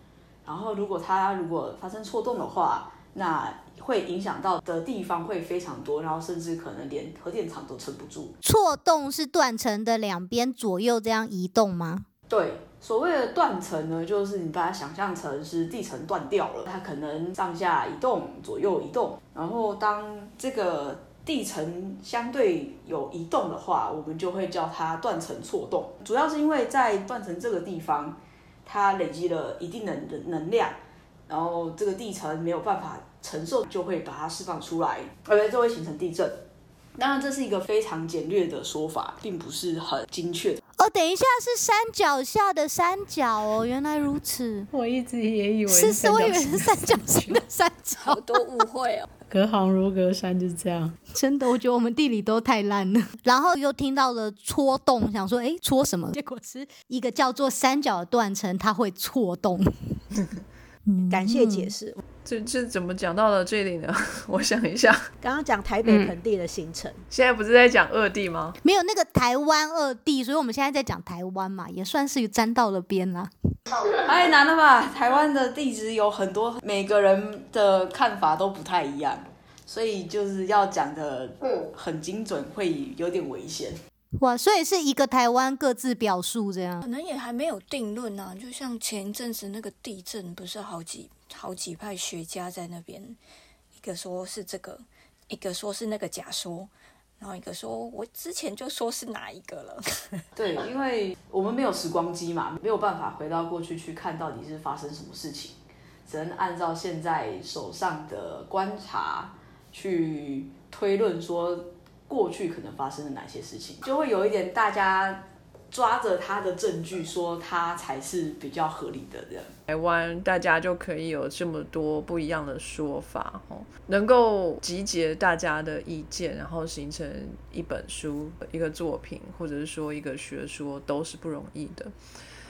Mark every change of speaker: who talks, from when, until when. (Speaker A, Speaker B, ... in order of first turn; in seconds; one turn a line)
Speaker A: 0.4-8.3
Speaker B: 8.4-12.1
Speaker A: 12.3-36.4
Speaker A: 37.0-40.6
Speaker B: 40.8-44.7
Speaker C: 44.7-47.4
Speaker B: 45.7-48.2
Speaker D: 48.0-49.0
Speaker C: 49.3-50.9
Speaker B: 51.1-60.0
Speaker B: 60.9-61.7
Speaker E: 61.1-62.0
Speaker F: 62.2-65.0
Speaker E: 65.2-67.0
Speaker F: 67.1-68.6
Speaker B: 68.6-73.3
Speaker A: 73.8-83.8
Speaker B: 84.2-86.8
Speaker D: 86.8-93.2
Speaker D: 93.7-100.0
Speaker A: 100.3-119.5
Speaker F: 119.7-131.9